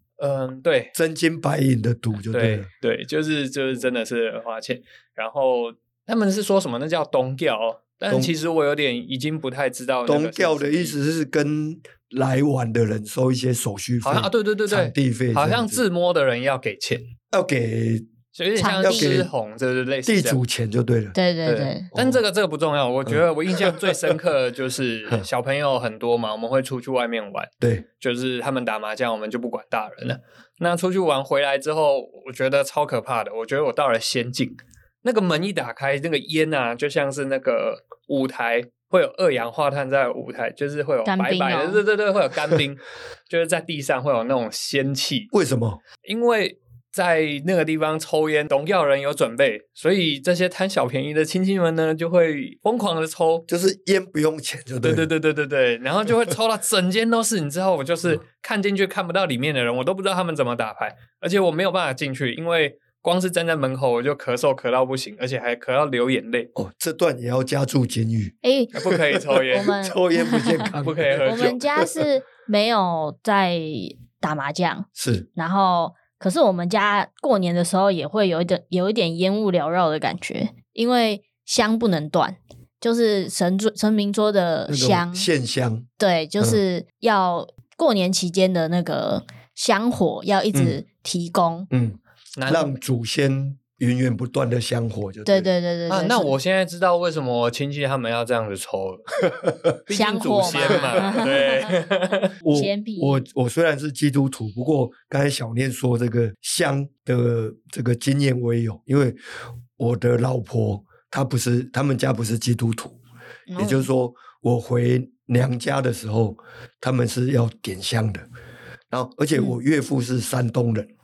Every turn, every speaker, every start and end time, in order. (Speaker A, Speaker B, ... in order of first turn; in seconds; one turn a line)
Speaker A: 0.2-0.9
Speaker B: 0.9-2.7
Speaker A: 2.3-10.9
Speaker B: 10.1-15.8
Speaker A: 14.0-17.1
Speaker B: 17.3-18.1
Speaker A: 18.3-20.4
Speaker C: 18.6-19.2
Speaker B: 18.8-19.3
Speaker B: 20.1-21.1
Speaker C: 21.1-21.9
Speaker A: 21.4-45.3
Speaker B: 21.9-22.2
Speaker B: 23.1-24.1
Speaker B: 27.6-27.9
Speaker C: 41.0-41.8
Speaker B: 45.3-45.8
Speaker A: 46.0-53.5
Speaker B: 53.5-55.1
Speaker A: 54.8-66.5
Speaker B: 66.5-68.3
Speaker C: 68.4-68.7
Speaker A: 68.7-69.8
Speaker B: 68.9-71.8
Speaker C: 69.5-70.7
Speaker A: 70.8-71.6
Speaker C: 71.2-85.3
Speaker B: 75.0-75.3
Speaker B: 84.7-85.9
Speaker C: 86.0-91.7
Speaker B: 90.5-90.8
Speaker B: 91.7-95.5
Speaker A: 92.4-92.8
Speaker C: 95.2-96.3
Speaker A: 95.9-99.1
Speaker B: 99.2-99.7
Speaker A: 99.9-102.3
Speaker C: 99.9-101.8
Speaker B: 100.5-101.0
Speaker B: 102.4-109.2
Speaker C: 102.5-103.2
Speaker B: 109.8-113.0
Speaker C: 113.5-113.9
Speaker B: 113.6-118.2
Speaker B: 118.9-120.9